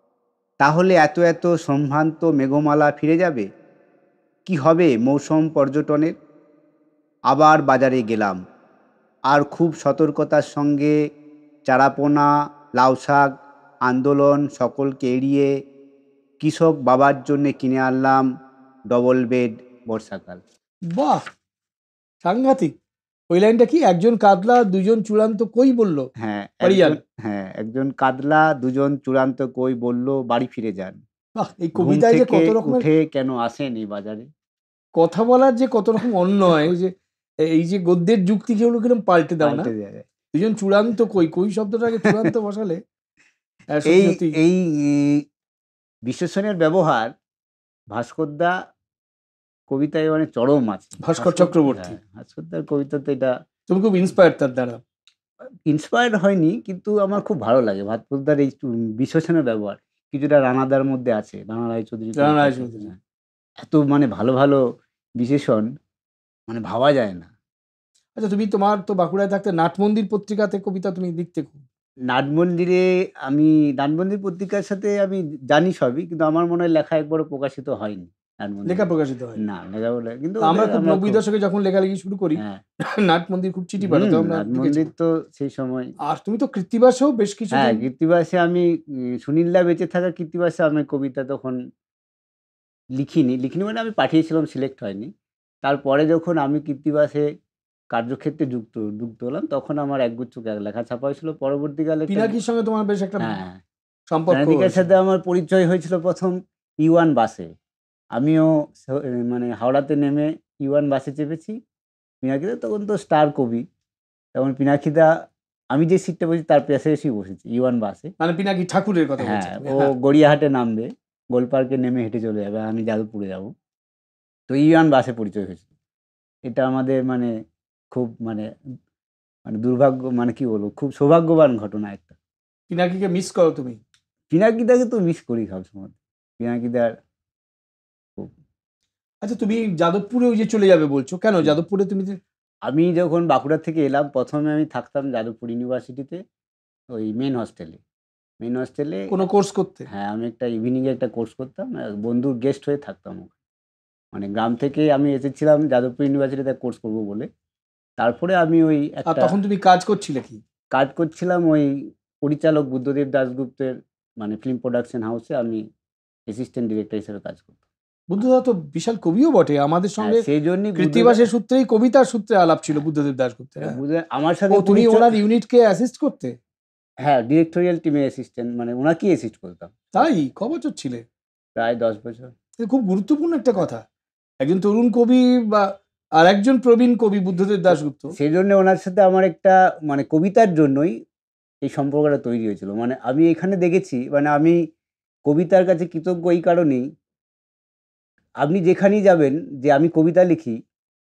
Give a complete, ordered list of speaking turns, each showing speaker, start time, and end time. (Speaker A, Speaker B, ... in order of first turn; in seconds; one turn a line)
Speaker A: 0.6-3.5
Speaker A: 4.5-6.2
Speaker A: 7.3-8.4
Speaker A: 9.3-10.9
Speaker A: 11.7-15.5
Speaker A: 16.4-18.2
Speaker A: 18.9-20.4
Speaker B: 20.9-21.2
Speaker B: 22.2-22.7
Speaker B: 23.3-26.1
Speaker A: 26.2-31.0
Speaker B: 26.6-27.0
Speaker B: 31.4-32.9
Speaker A: 31.8-34.3
Speaker B: 35.0-39.7
Speaker A: 39.4-40.1
Speaker B: 40.3-42.8
Speaker A: 42.0-42.3
Speaker B: 43.7-44.4
Speaker A: 43.9-45.3
Speaker A: 46.0-47.1
Speaker A: 47.9-48.5
Speaker A: 49.7-53.4
Speaker B: 51.0-52.0
Speaker B: 53.7-54.8
Speaker A: 55.7-63.0
Speaker B: 62.2-62.9
Speaker A: 63.6-64.6
Speaker A: 65.2-65.7
Speaker A: 66.5-67.3
Speaker B: 68.2-71.6
Speaker A: 72.1-81.2
Speaker B: 78.7-79.4
Speaker B: 80.4-84.9
Speaker A: 82.3-82.6
Speaker A: 83.8-85.9
Speaker B: 86.0-87.8
Speaker A: 87.5-91.6
Speaker A: 93.0-95.1
Speaker A: 95.6-97.3
Speaker A: 97.9-102.4
Speaker B: 102.1-103.4
Speaker A: 103.2-103.6
Speaker B: 104.1-104.9
Speaker A: 104.3-107.5
Speaker A: 108.2-111.6
Speaker A: 112.2-113.6
Speaker A: 114.3-115.1
Speaker A: 115.7-118.1
Speaker B: 118.2-119.9
Speaker A: 119.2-123.5
Speaker A: 124.5-125.7
Speaker A: 126.5-127.3
Speaker A: 127.9-128.5
Speaker A: 129.5-132.2
Speaker B: 132.7-133.8
Speaker A: 134.3-136.9
Speaker B: 139.2-142.2
Speaker A: 142.7-146.2
Speaker A: 146.9-147.8
Speaker A: 148.4-149.2
Speaker B: 149.1-149.9
Speaker A: 149.9-153.3
Speaker A: 154.1-157.3
Speaker A: 158.0-159.4
Speaker B: 159.1-160.4
Speaker A: 160.7-165.6
Speaker A: 166.3-167.6
Speaker B: 168.1-170.2
Speaker A: 170.0-171.2
Speaker B: 170.8-173.8
Speaker A: 173.6-175.2
Speaker B: 174.5-176.4
Speaker A: 177.0-180.1
Speaker B: 179.9-181.1
Speaker A: 181.6-182.3
Speaker B: 182.6-183.8
Speaker B: 184.4-188.1
Speaker A: 188.1-190.9
Speaker A: 191.7-194.6
Speaker A: 195.3-196.8
Speaker A: 198.4-200.6